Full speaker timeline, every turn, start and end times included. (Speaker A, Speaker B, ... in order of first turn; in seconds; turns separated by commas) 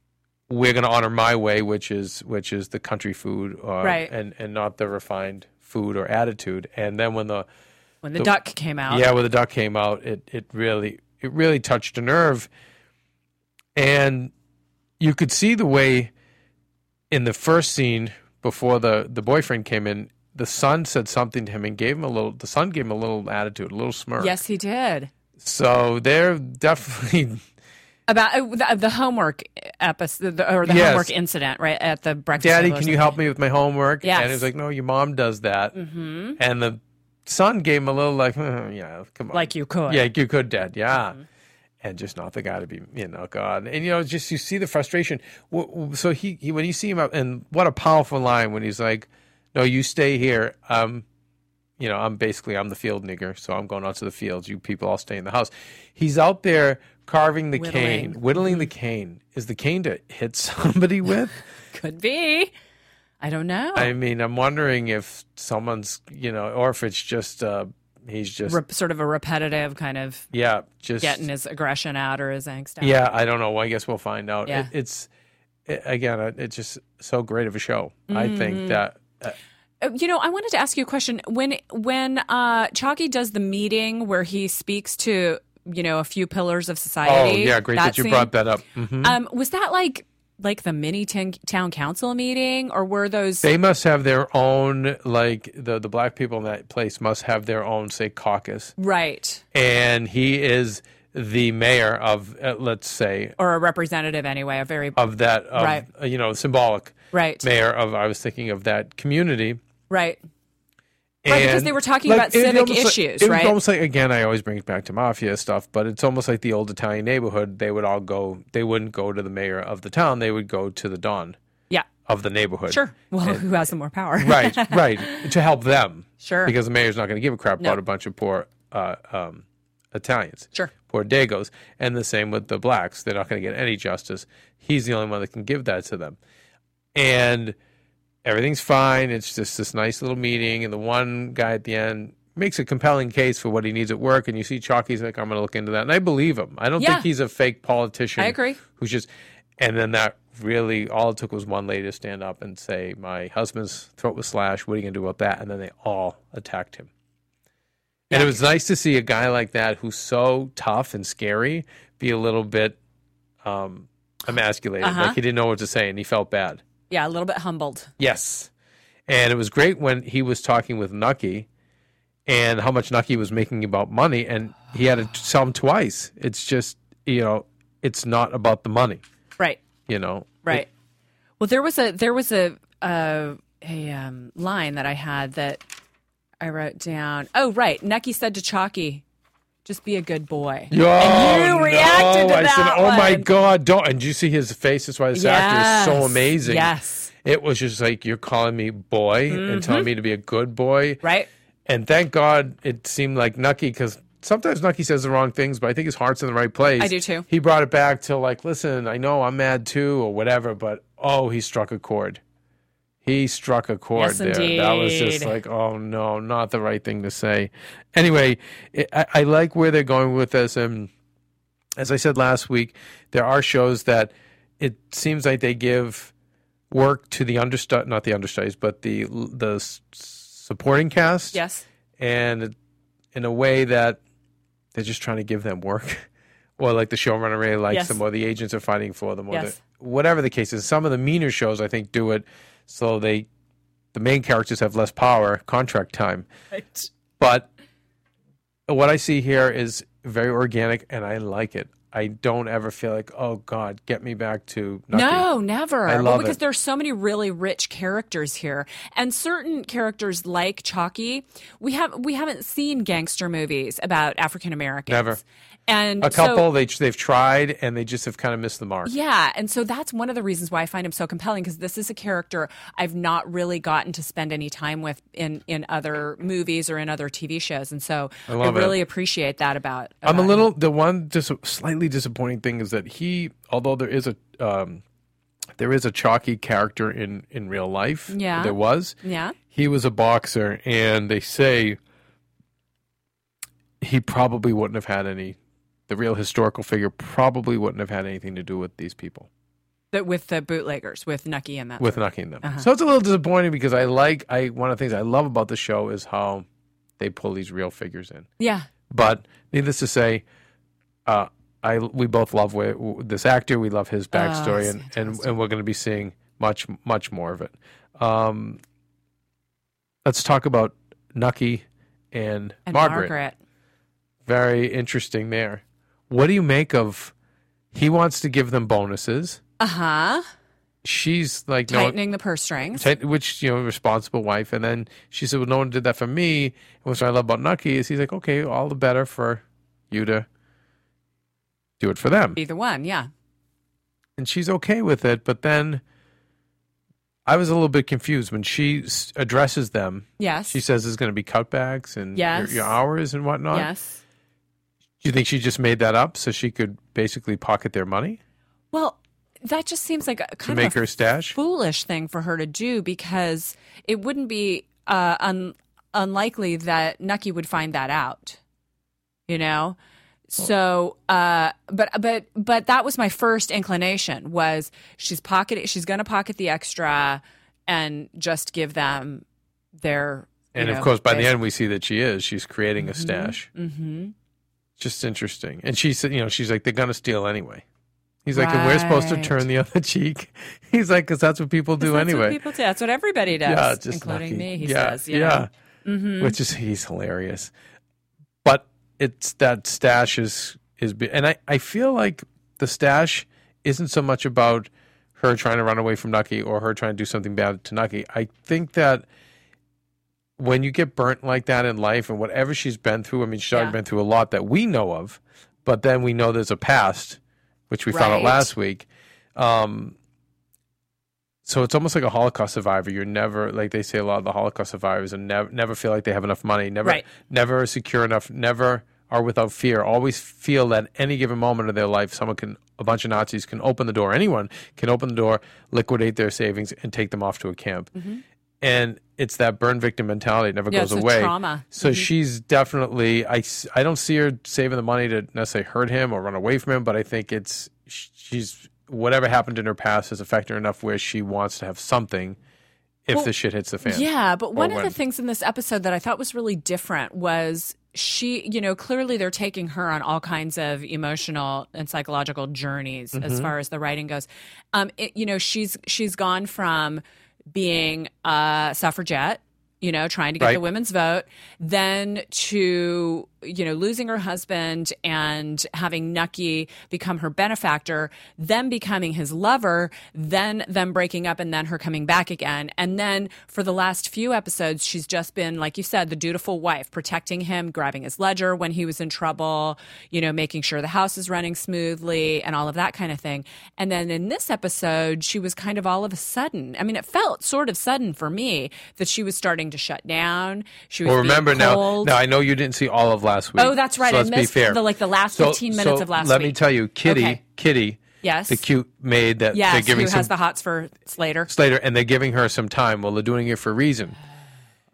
Speaker A: 0.5-7.5, Speaker B: 3.8-4.1, Speaker B: 8.0-9.1, Speaker A: 8.9-12.5, Speaker A: 13.7-14.3, Speaker A: 15.0-16.1, Speaker A: 17.1-24.4, Speaker B: 24.2-25.1, Speaker A: 25.4-27.4, Speaker B: 28.1-33.2, Speaker A: 30.6-31.1, Speaker A: 32.4-35.8, Speaker B: 34.0-34.5, Speaker B: 35.7-36.4, Speaker A: 36.4-41.2, Speaker B: 39.3-40.0, Speaker A: 41.8-51.0, Speaker A: 51.8-61.4, Speaker B: 57.5-58.7, Speaker B: 61.7-62.5, Speaker B: 63.2-63.9, Speaker A: 63.7-68.6, Speaker B: 68.5-70.3, Speaker A: 70.3-71.2, Speaker B: 71.0-73.0, Speaker A: 72.8-75.1, Speaker A: 75.7-79.3, Speaker B: 78.1-78.8, Speaker B: 79.8-88.3, Speaker A: 87.0-89.2, Speaker B: 89.0-93.5, Speaker A: 93.4-98.7, Speaker B: 98.8-99.4, Speaker A: 99.5-103.3, Speaker B: 103.4-105.8, Speaker A: 105.0-109.6, Speaker B: 107.1-107.5, Speaker B: 109.9-110.2, Speaker A: 111.2-121.4, Speaker B: 111.3-113.5, Speaker A: 122.0-123.4, Speaker B: 122.7-125.3, Speaker A: 124.2-136.2, Speaker B: 126.2-126.5, Speaker A: 136.9-137.6, Speaker A: 138.2-156.9, Speaker B: 146.8-147.1, Speaker B: 148.2-148.6, Speaker B: 158.1-158.4, Speaker A: 158.1-162.8, Speaker A: 163.4-166.6, Speaker B: 164.8-165.2, Speaker B: 166.9-167.9, Speaker A: 168.0-168.5, Speaker A: 169.1-171.5, Speaker A: 172.2-179.0, Speaker A: 179.9-180.7, Speaker B: 181.4-185.6, Speaker B: 186.4-189.0, Speaker B: 189.6-193.3, Speaker A: 190.7-196.7, Speaker B: 195.1-197.1, Speaker A: 197.2-201.0, Speaker B: 199.3-199.9, Speaker B: 201.0-201.3, Speaker A: 201.7-212.2, Speaker B: 206.8-207.2, Speaker A: 213.0-220.9, Speaker B: 213.9-215.3, Speaker A: 221.8-226.1, Speaker A: 226.7-231.4, Speaker B: 231.3-231.6, Speaker A: 232.0-232.5, Speaker A: 233.1-234.0, Speaker A: 234.7-236.0, Speaker A: 236.6-243.3, Speaker B: 237.7-238.0, Speaker B: 239.3-239.6, Speaker A: 243.9-246.3, Speaker B: 246.5-246.9, Speaker A: 247.2-247.5, Speaker A: 248.7-255.3, Speaker B: 254.9-266.5, Speaker A: 255.8-256.4, Speaker A: 264.9-265.2, Speaker A: 266.0-268.9, Speaker B: 268.8-280.5, Speaker A: 278.3-278.8, Speaker A: 280.0-284.8, Speaker A: 285.6-289.0, Speaker B: 288.1-289.4, Speaker A: 289.5-291.8, Speaker A: 293.8-295.4, Speaker A: 295.9-299.3, Speaker B: 299.9-302.7, Speaker A: 301.8-306.4, Speaker A: 307.0-308.3, Speaker B: 308.4-308.7, Speaker A: 308.9-310.2, Speaker A: 311.1-318.6, Speaker B: 314.1-315.3, Speaker A: 320.0-323.1, Speaker B: 322.7-323.3, Speaker A: 324.2-327.1, Speaker A: 327.7-329.4, Speaker B: 329.6-330.2, Speaker A: 330.8-331.9, Speaker B: 331.7-332.9, Speaker A: 332.7-340.3, Speaker A: 341.8-342.4, Speaker B: 342.4-343.1, Speaker A: 344.2-345.8, Speaker A: 347.2-353.7, Speaker B: 350.2-350.6, Speaker B: 352.1-352.7, Speaker B: 353.5-354.0, Speaker A: 355.0-358.2, Speaker B: 358.7-360.8, Speaker A: 360.5-361.3, Speaker B: 361.3-368.4, Speaker B: 369.3-369.8, Speaker B: 370.3-379.2, Speaker B: 379.8-381.3, Speaker A: 380.5-383.5, Speaker B: 382.8-384.1, Speaker A: 384.8-387.6, Speaker A: 388.2-392.4, Speaker B: 388.3-389.4, Speaker B: 391.8-396.4, Speaker A: 393.4-395.5, Speaker A: 396.2-397.5, Speaker A: 398.4-409.1, Speaker A: 410.4-417.2, Speaker A: 417.7-419.9, Speaker B: 417.9-418.5, Speaker A: 421.4-437.9, Speaker B: 437.9-438.2, Speaker A: 438.6-452.4, Speaker B: 440.7-442.1, Speaker A: 453.0-454.9, Speaker B: 453.8-467.0, Speaker A: 463.1-463.5, Speaker B: 467.5-502.1, Speaker A: 501.0-510.3, Speaker B: 503.6-507.4, Speaker B: 508.2-508.6, Speaker B: 509.5-511.5, Speaker A: 511.5-514.2